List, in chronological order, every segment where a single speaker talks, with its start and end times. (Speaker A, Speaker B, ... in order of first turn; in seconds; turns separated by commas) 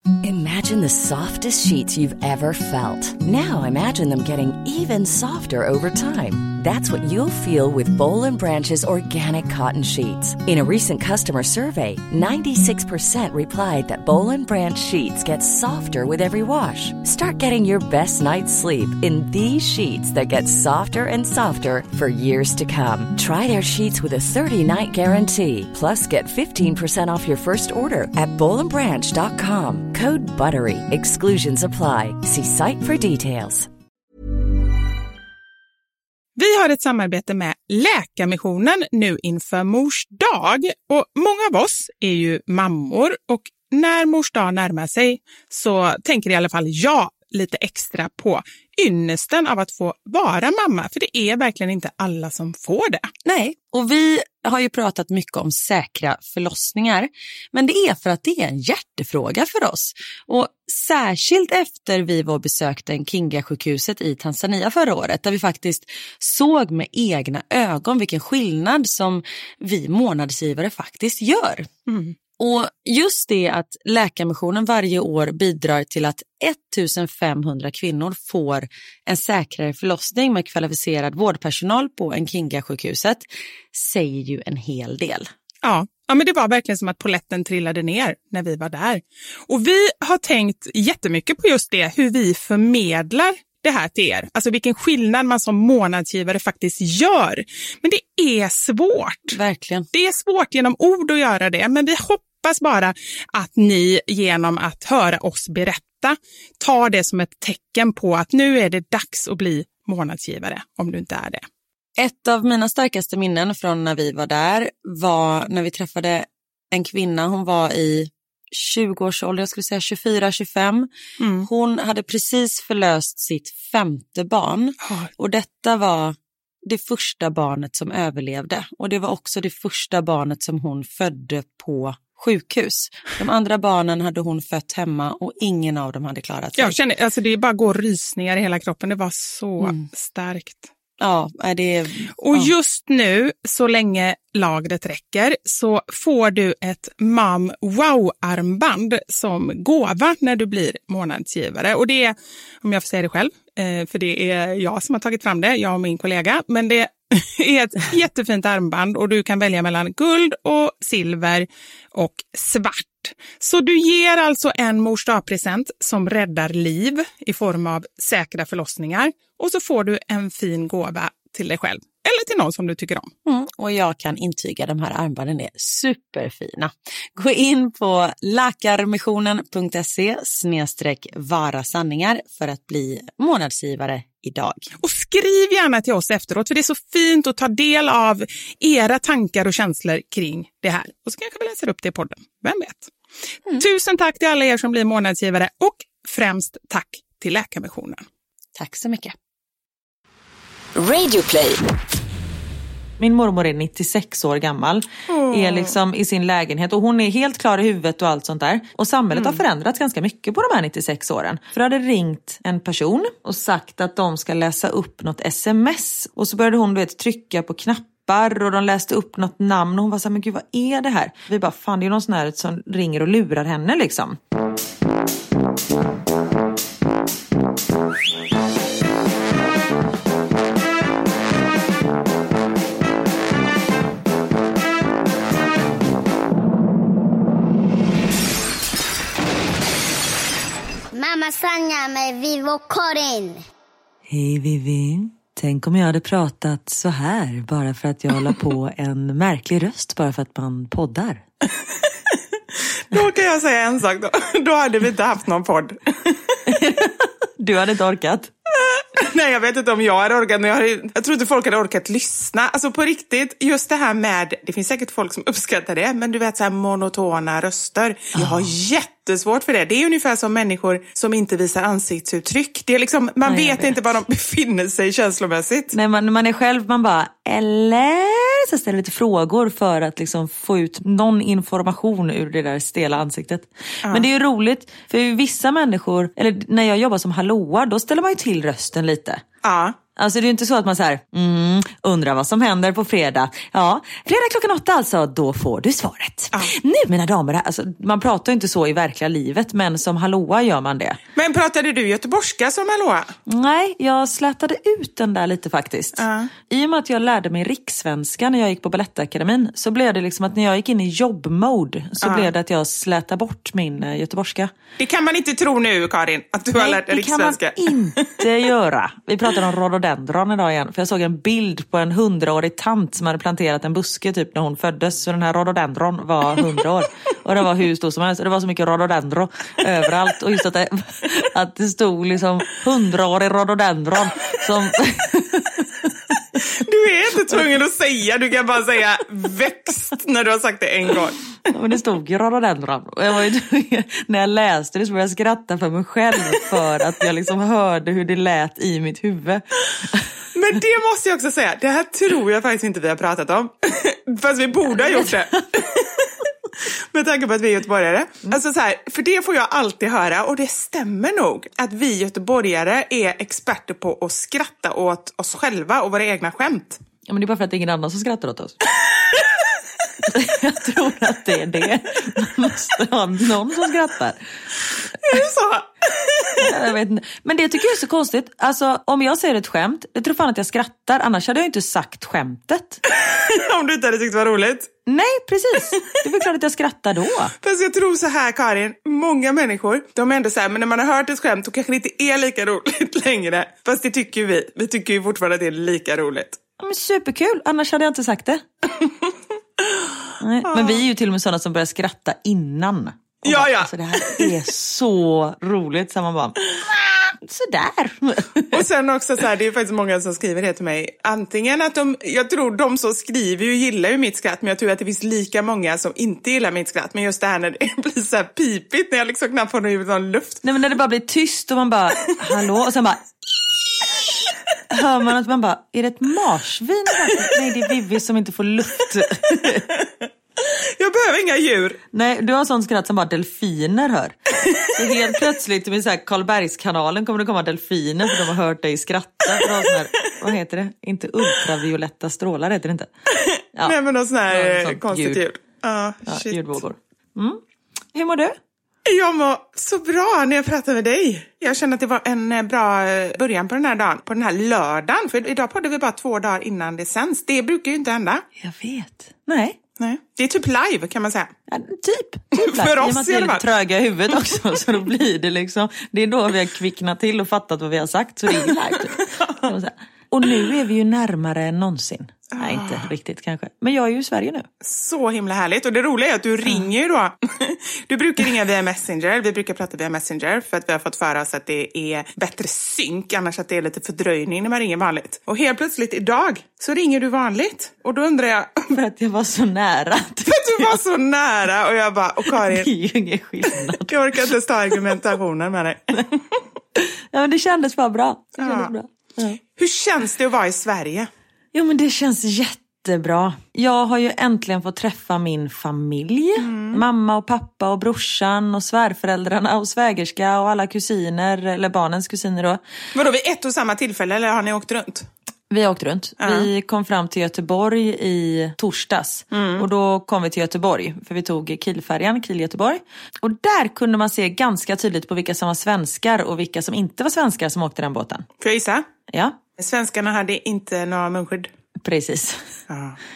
Speaker A: 0.2-33.7, Speaker B: 36.4-53.1, Speaker C: 53.2-71.7, Speaker B: 71.9-72.1, Speaker C: 72.4-85.3, Speaker B: 85.6-99.4, Speaker C: 99.3-99.8, Speaker B: 99.9-111.5, Speaker C: 112.0-136.8, Speaker B: 121.2-121.5, Speaker B: 124.8-125.1, Speaker B: 136.6-140.7, Speaker C: 139.6-139.8, Speaker C: 141.0-142.5, Speaker B: 142.2-173.1, Speaker C: 173.2-184.7, Speaker B: 184.8-192.9, Speaker B: 193.6-198.0, Speaker C: 198.6-199.1, Speaker C: 200.8-201.6, Speaker D: 203.0-224.2, Speaker B: 205.1-205.8, Speaker B: 209.1-209.4, Speaker E: 240.9-243.4, Speaker D: 244.1-251.2, Speaker B: 251.4-256.4, Speaker D: 256.4-258.3, Speaker B: 258.5-275.7, Speaker D: 268.2-268.4, Speaker D: 273.2-273.8, Speaker D: 275.7-289.2, Speaker B: 289.4-289.8, Speaker D: 289.9-301.0, Speaker B: 301.1-303.1, Speaker D: 303.3-314.5, Speaker B: 306.0-306.3, Speaker B: 312.0-312.3, Speaker B: 314.8-318.2, Speaker D: 316.6-335.9, Speaker B: 336.4-341.2, Speaker D: 341.5-350.1, Speaker B: 350.3-366.8, Speaker D: 354.8-355.3, Speaker D: 367.1-368.6, Speaker B: 368.8-369.3, Speaker D: 370.1-374.2, Speaker B: 375.0-376.5, Speaker D: 376.4-382.8, Speaker B: 382.9-384.7, Speaker D: 384.9-387.3, Speaker B: 387.4-396.4, Speaker D: 396.6-398.4, Speaker B: 398.8-399.1, Speaker D: 400.2-408.6, Speaker B: 400.5-400.8, Speaker B: 403.2-404.3, Speaker B: 408.5-420.4, Speaker D: 420.4-423.0, Speaker D: 424.7-429.6, Speaker B: 429.4-429.9, Speaker B: 430.5-431.8, Speaker D: 431.9-442.9, Speaker B: 443.1-446.6, Speaker D: 444.3-445.2, Speaker D: 446.1-447.4, Speaker D: 447.9-448.4, Speaker B: 448.8-458.2, Speaker D: 458.4-459.6, Speaker B: 459.8-461.3, Speaker D: 461.5-474.5, Speaker B: 462.3-463.4, Speaker B: 472.3-472.9, Speaker B: 474.6-488.7, Speaker D: 488.7-490.8, Speaker B: 490.3-492.7, Speaker D: 492.3-493.9, Speaker B: 493.7-496.4, Speaker D: 496.8-499.4, Speaker B: 498.4-498.7, Speaker B: 499.6-501.1, Speaker D: 501.5-512.6, Speaker B: 506.4-506.8, Speaker B: 512.9-515.1, Speaker D: 515.5-528.3, Speaker B: 516.2-516.5, Speaker B: 519.3-519.6, Speaker B: 528.4-528.9, Speaker D: 529.1-529.4, Speaker B: 529.6-531.5, Speaker D: 531.8-532.5, Speaker B: 532.7-533.0